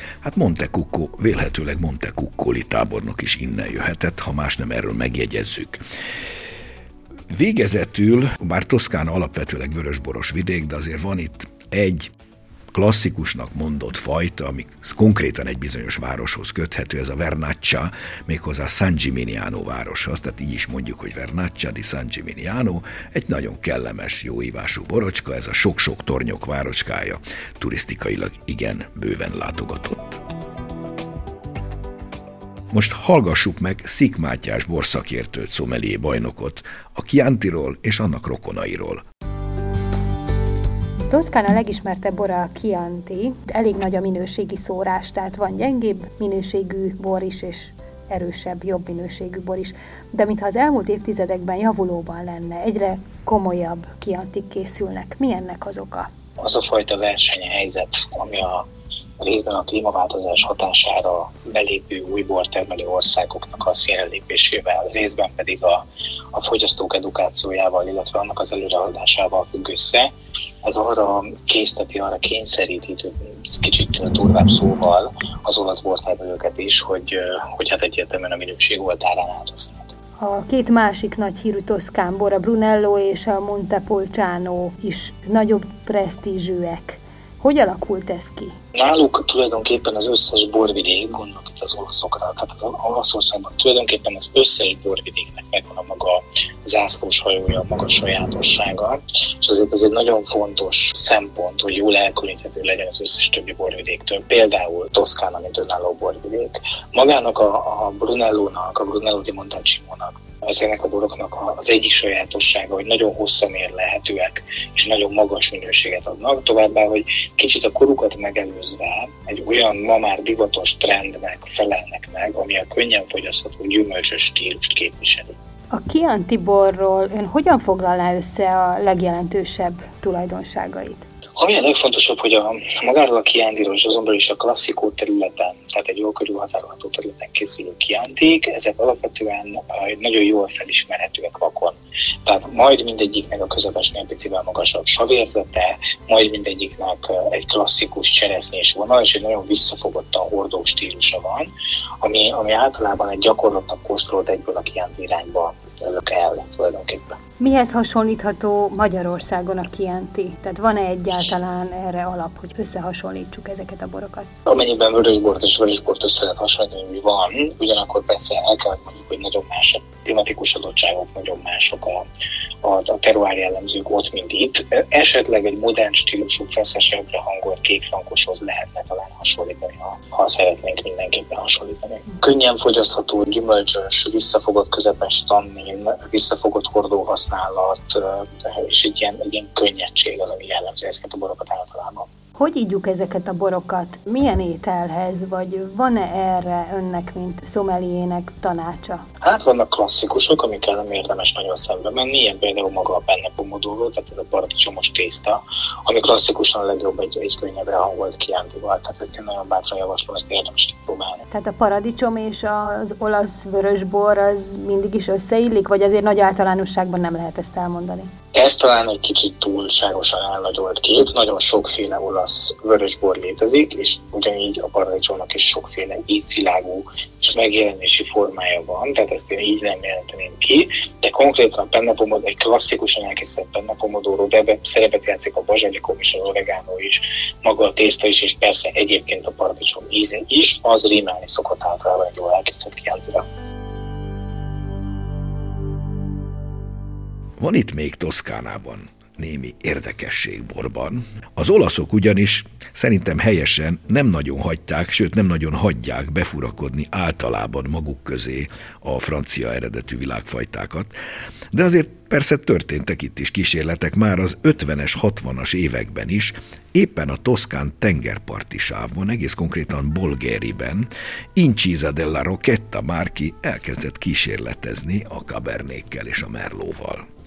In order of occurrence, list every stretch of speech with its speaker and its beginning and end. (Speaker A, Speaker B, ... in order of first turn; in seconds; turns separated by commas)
Speaker A: 0.2-5.8, Speaker A: 7.3-12.1, Speaker A: 12.7-30.2, Speaker A: 32.7-39.0, Speaker B: 41.1-56.1, Speaker C: 56.4-58.6, Speaker C: 59.2-70.1, Speaker C: 70.6-79.9, Speaker B: 80.2-88.5, Speaker C: 88.7-125.3, Speaker B: 125.7-131.0, Speaker C: 131.4-151.5, Speaker C: 152.0-157.2, Speaker B: 157.4-164.3, Speaker C: 164.4-172.1, Speaker C: 172.6-192.1, Speaker B: 192.4-199.0, Speaker C: 199.2-211.2, Speaker B: 211.3-218.1, Speaker C: 218.3-243.2, Speaker A: 247.4-260.9, Speaker A: 261.5-277.1